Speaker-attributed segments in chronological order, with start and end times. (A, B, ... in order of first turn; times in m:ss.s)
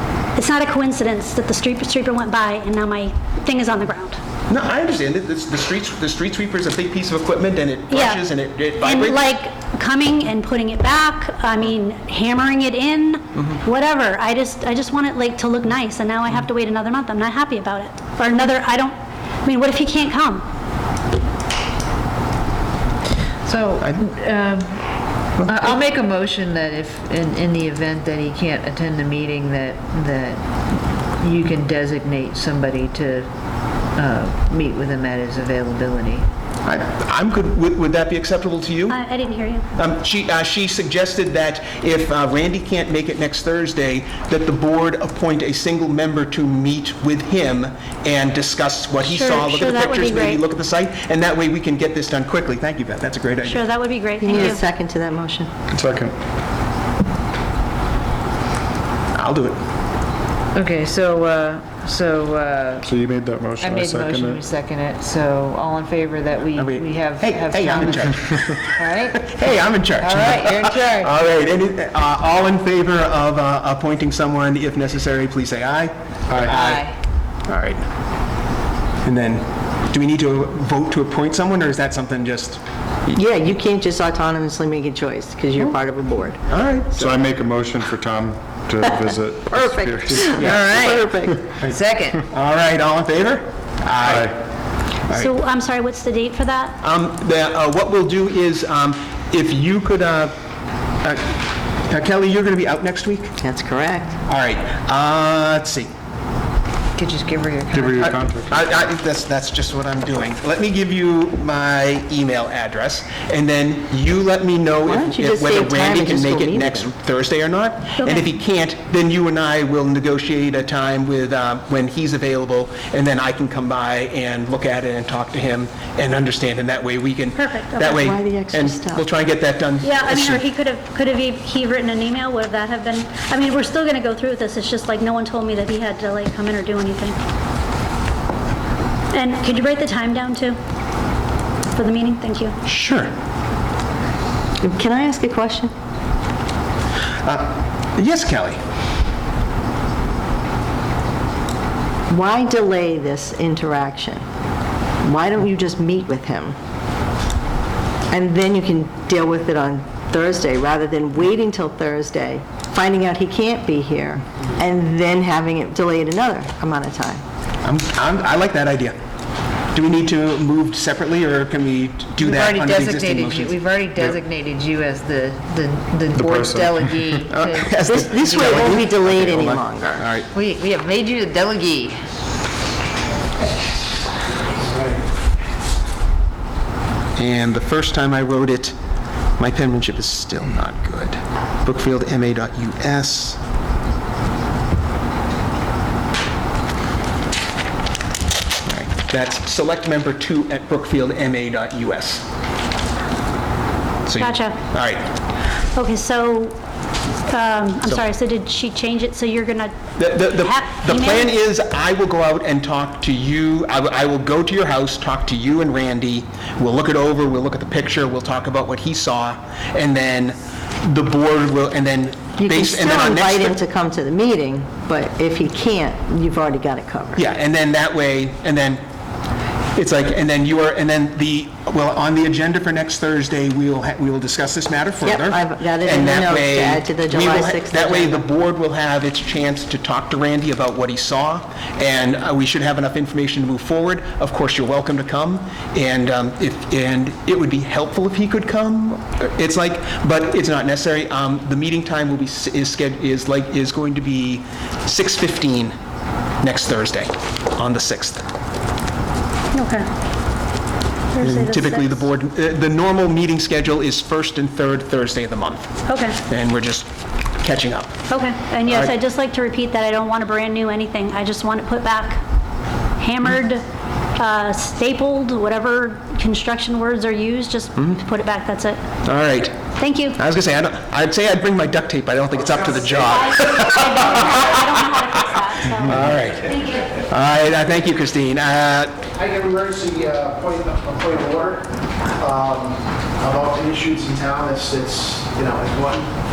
0:00.4-0:04.2 A
0:04.5-0:09.2 B
0:07.9-0:08.2 A
0:08.8-0:20.4 A
0:23.4-0:30.5 C
0:31.2-0:33.3 C
0:34.0-0:36.3 C
0:36.6-0:39.0 B
0:38.9-0:39.7 A
0:39.8-0:53.6 B
0:49.0-0:50.4 A
0:53.4-0:54.6 A
0:54.2-0:55.5 D
0:55.7-0:56.2 E
0:59.2-0:59.6 B
1:00.6-1:02.9 C
1:02.8-1:04.4 E
1:03.6-1:09.3 C
1:06.6-1:16.9 B
1:10.0-1:11.2 C
1:16.4-1:17.0 C
1:17.5-1:17.8 B
1:19.0-1:23.2 B
1:23.1-1:26.4 D
1:26.5-1:27.0 B
1:26.9-1:30.6 E
1:28.8-1:31.4 D
1:30.4-1:30.7 B
1:30.4-1:32.2 C
1:32.3-1:34.3 B
1:34.0-1:34.4 E
1:35.1-1:36.8 A
1:36.8-1:40.3 B
1:41.0-1:41.4 B
1:41.9-1:43.4 B
1:43.4-1:44.2 D
1:44.3-1:45.9 B
1:47.0-1:48.2 C
1:47.7-1:48.7 E
1:48.0-2:10.4 B
1:54.9-1:56.9 D
1:58.0-1:58.3 A
2:07.4-2:08.0 A
2:07.9-2:09.1 D
2:09.8-2:17.2 A
2:19.1-2:20.6 A
2:21.7-2:22.6 A
2:22.7-2:23.1 B
2:24.6-2:25.7 D
2:27.2-2:28.6 B
2:32.1-2:34.2 D
2:35.0-2:36.6 D
2:38.1-2:47.2 D
2:47.6-2:49.0 B
2:49.7-2:54.2 B
2:52.2-2:58.9 C
2:56.2-2:57.2 E
2:57.4-3:00.3 B
2:57.8-3:00.1 D
3:00.3-3:02.0 C
3:07.2-3:08.8 B
3:09.4-3:13.4 B
3:18.7-3:22.2 B
3:24.1-3:25.0 B
3:24.2-3:24.6 A
3:25.7-3:26.6 A
3:27.3-3:29.7 A
3:30.0-3:43.6 B
3:30.2-3:31.3 A
3:42.4-3:47.2 D
3:47.2-3:48.8 B
3:49.8-4:15.8 B
3:55.0-3:58.3 D
4:16.4-4:18.2 B
4:19.5-4:19.9 A
4:21.1-4:22.1 A
4:21.2-4:25.7 B
4:25.9-4:26.2 A
4:26.3-4:26.9 B
4:27.4-4:28.0 B
4:28.1-4:32.2 A
4:28.7-4:28.9 B
4:33.0-4:33.6 A
4:34.2-4:38.8 A
4:39.0-4:39.6 B
4:39.8-4:40.2 A
4:40.2-4:44.6 B
4:43.0-4:46.9 A
4:45.8-4:49.1 B
4:49.2-4:51.5 F
4:52.2-4:56.1 F